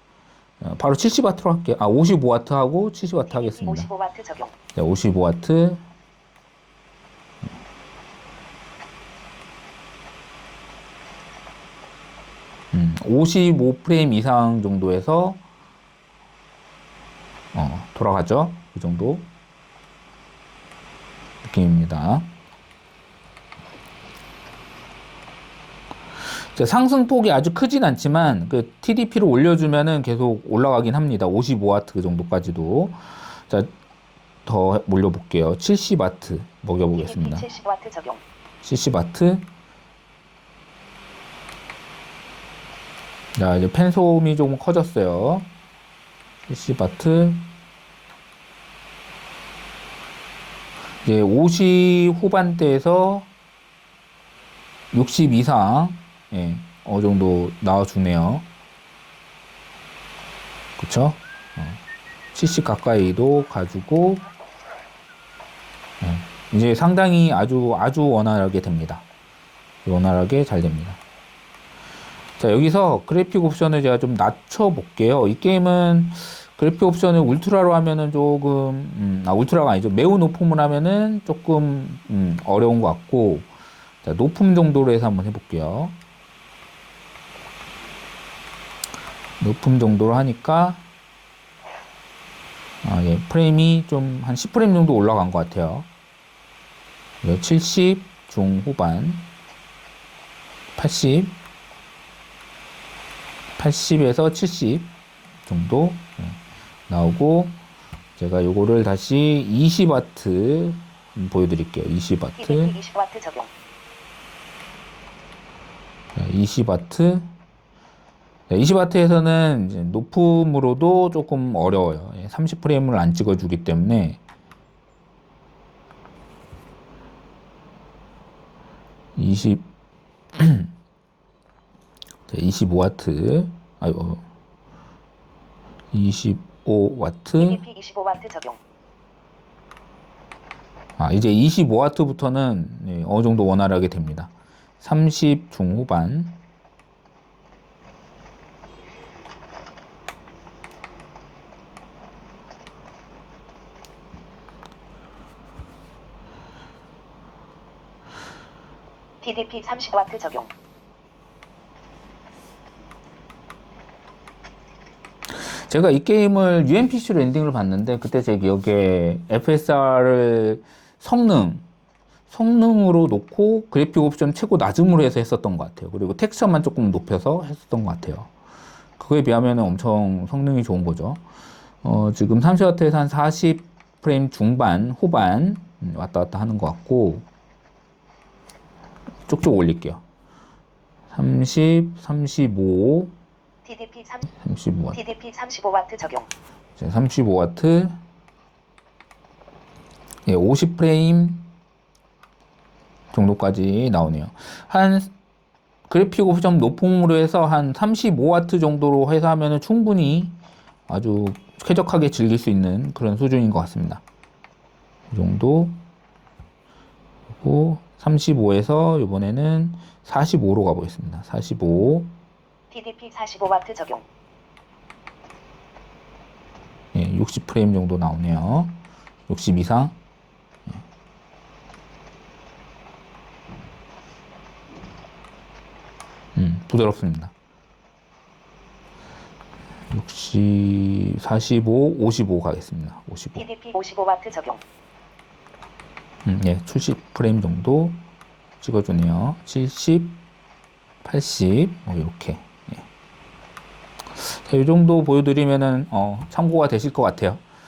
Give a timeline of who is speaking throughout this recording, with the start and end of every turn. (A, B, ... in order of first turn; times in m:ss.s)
0:00.6-0:03.9 A
0:03.3-0:04.6 B
0:04.7-0:05.8 A
0:12.7-0:15.4 A
0:17.5-0:19.3 A
0:21.4-0:22.3 A
0:26.4-0:33.7 A
0:34.5-0:37.5 A
0:36.9-0:38.2 B
0:38.6-0:39.5 A
0:43.4-0:45.5 A
0:46.5-0:47.5 A
0:51.0-0:53.3 A
0:54.9-0:58.5 A
1:00.8-1:01.8 A
1:02.3-1:04.3 A
1:06.0-1:09.1 A
1:09.8-1:11.0 A
1:12.4-1:23.5 A
1:24.0-1:26.0 A
1:29.4-1:30.8 A
1:32.8-1:35.9 A
1:37.2-1:39.3 A
1:40.8-1:41.4 A
1:43.6-1:44.9 A
1:45.5-1:47.6 A
1:48.2-1:52.8 A
1:52.4-1:53.5 B
1:56.2-1:57.3 A
1:58.5-2:04.2 A
2:09.2-2:09.7 A
2:10.4-2:10.7 A
2:12.3-2:14.2 A
2:15.9-2:17.6 A
2:17.4-2:18.6 B
2:21.0-2:26.4 A
2:39.2-2:40.5 B
2:45.3-2:51.6 A
2:52.3-2:58.3 A
2:59.0-3:01.2 A
3:01.8-3:07.2 A
3:09.3-3:10.0 A
3:11.1-3:13.1 A
3:13.6-3:14.3 B
3:14.3-3:15.0 A
3:14.9-3:16.3 B
3:16.8-3:18.0 A
3:20.3-3:21.5 A
3:23.1-3:25.1 A
3:25.9-3:30.4 A
3:30.9-3:34.0 A
3:35.1-3:35.8 A
3:37.4-3:42.1 A
3:42.7-3:44.1 B
3:46.9-3:50.0 A
3:56.4-3:57.3 A
3:59.9-4:03.5 A
4:03.4-4:04.6 B
4:06.2-4:08.0 A
4:08.6-4:10.2 A
4:11.0-4:12.9 A
4:14.2-4:17.4 A